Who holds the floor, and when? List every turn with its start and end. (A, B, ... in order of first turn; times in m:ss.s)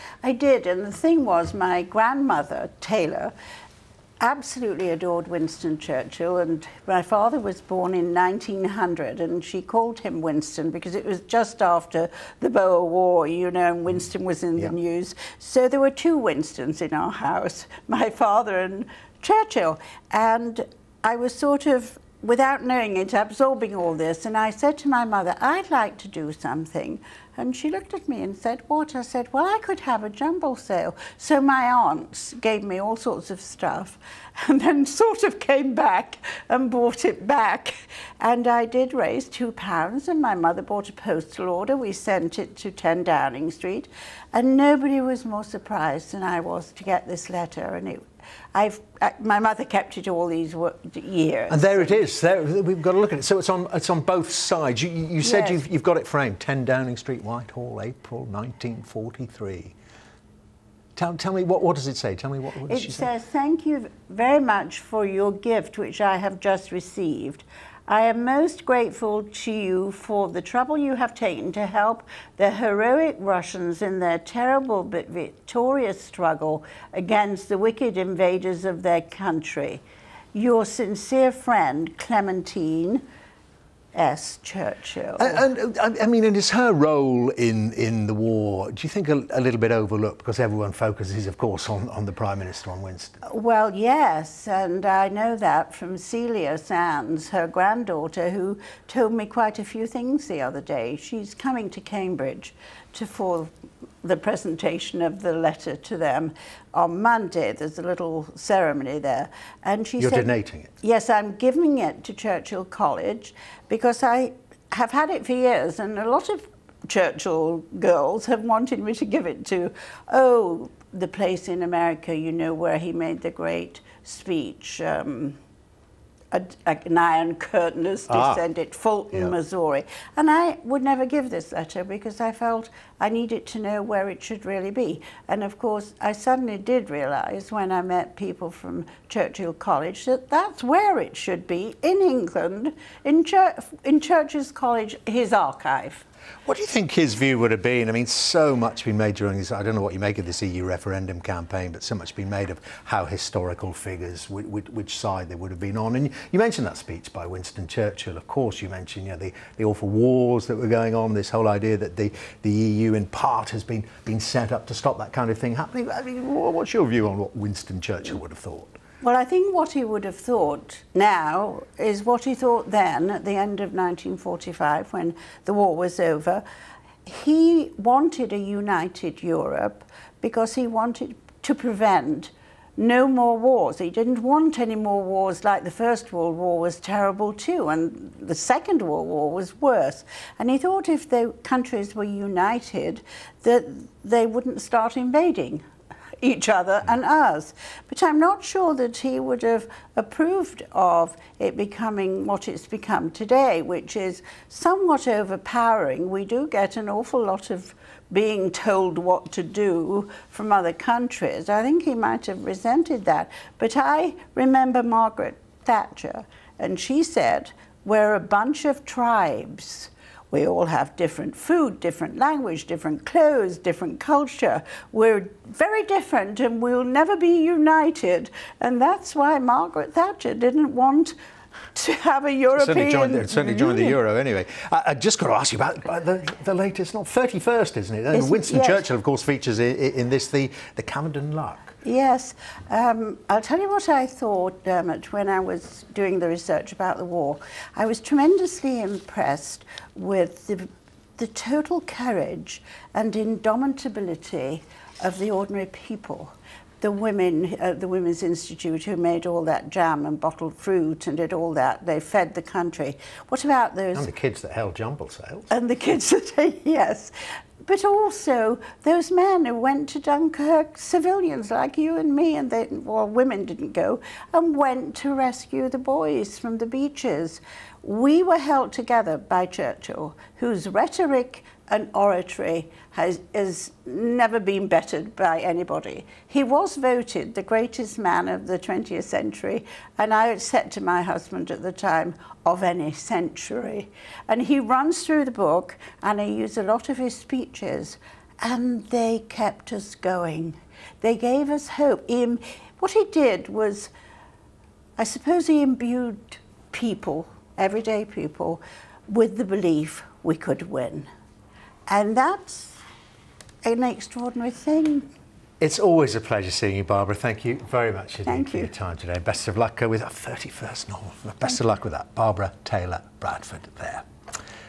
0:00.2-0:03.3 A
0:04.2-0:52.0 A
0:51.5-0:59.7 B
0:55.2-0:55.6 A
1:01.0-1:03.1 B
1:02.7-1:19.8 A
1:20.3-1:23.0 A
1:23.9-1:25.4 A
1:25.2-1:33.2 B
1:33.2-1:43.5 A
1:44.0-1:50.3 A
1:50.0-1:50.7 B
1:50.8-2:05.4 A
2:06.3-2:26.1 A
2:08.1-2:08.4 B
2:26.5-2:48.8 B
2:49.0-2:56.4 A
2:57.0-3:15.6 A
3:16.2-3:51.2 A
3:51.8-3:54.0 A
3:52.6-4:01.8 B
3:58.1-3:58.8 A
4:01.8-4:24.1 A
4:24.0-4:25.5 B
4:25.5-5:03.9 A
5:05.0-5:11.1 A
5:11.9-5:12.8 A
5:13.6-5:15.0 A
5:15.6-5:24.1 B
5:18.3-5:18.7 A